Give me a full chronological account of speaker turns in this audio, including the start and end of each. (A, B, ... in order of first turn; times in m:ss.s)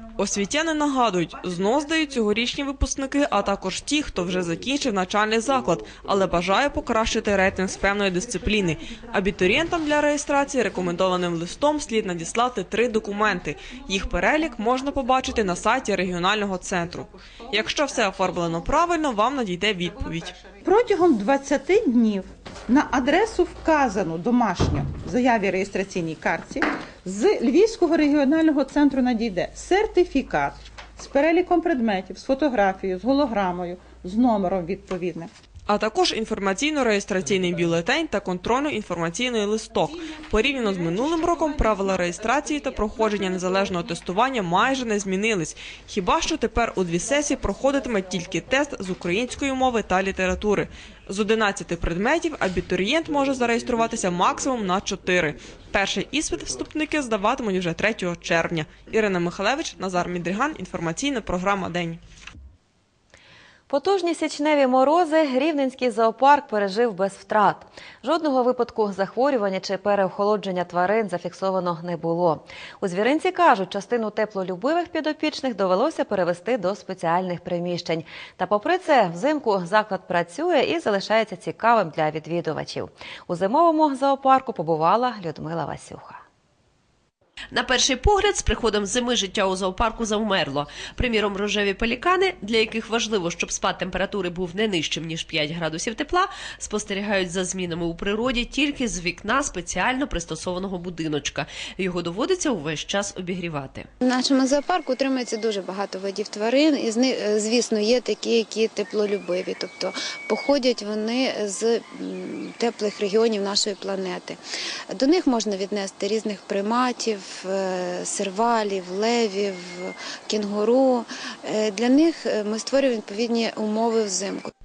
0:00.2-0:20.4 A
0:20.6-0:35.3 B
0:35.7-1:02.0 A
1:03.7-1:26.2 C
1:27.5-1:43.9 D
1:44.0-1:54.4 E
1:54.9-2:04.5 E